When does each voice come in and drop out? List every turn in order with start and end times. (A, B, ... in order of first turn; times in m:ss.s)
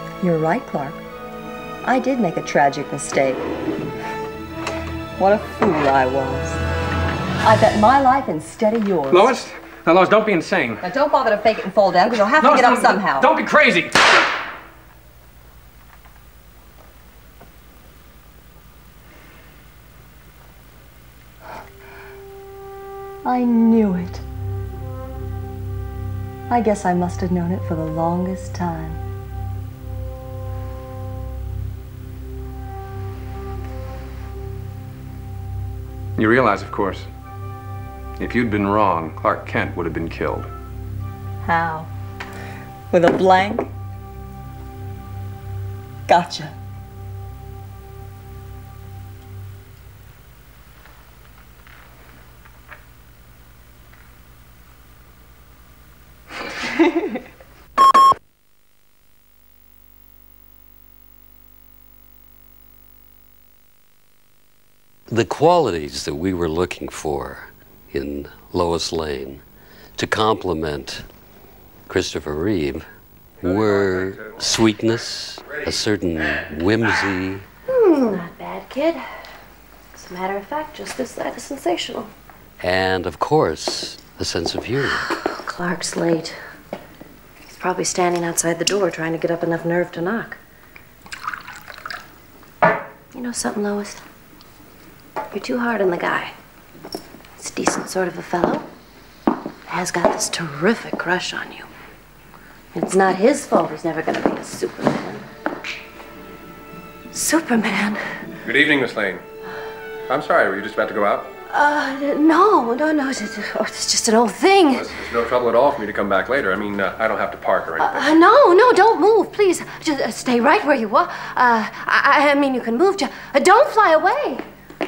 0:00.2-0:01.0 A
0:01.8-0:03.4 A
0:05.2-0:06.6 A
0:07.4-0:09.3 A
0:09.1-0:10.8 B
0:10.8-0:13.3 A
0:12.4-0:14.2 B
0:23.2-0:24.2 A
0:26.5-0:29.0 A
0:36.2-0:37.1 B
0:38.2-0:40.5 B
0:41.4-0:41.9 A
0:42.9-0:43.7 A
0:46.1-0:46.5 A
1:05.1-1:09.4 C
1:10.0-1:11.0 C
1:11.9-1:12.9 C
1:13.4-1:17.5 C
1:17.7-1:19.0 D
1:19.9-1:22.1 D
1:22.6-1:25.1 C
1:25.1-1:26.4 D
1:27.5-1:30.4 D
1:33.1-1:34.0 D
1:35.3-1:36.3 D
1:37.4-1:38.7 D
1:39.7-1:41.7 D
1:42.7-1:45.3 D
1:47.1-1:48.2 D
1:48.4-1:49.2 E
1:50.1-1:51.3 E
1:51.5-1:54.9 D
1:54.7-1:58.1 E
1:57.8-2:04.4 D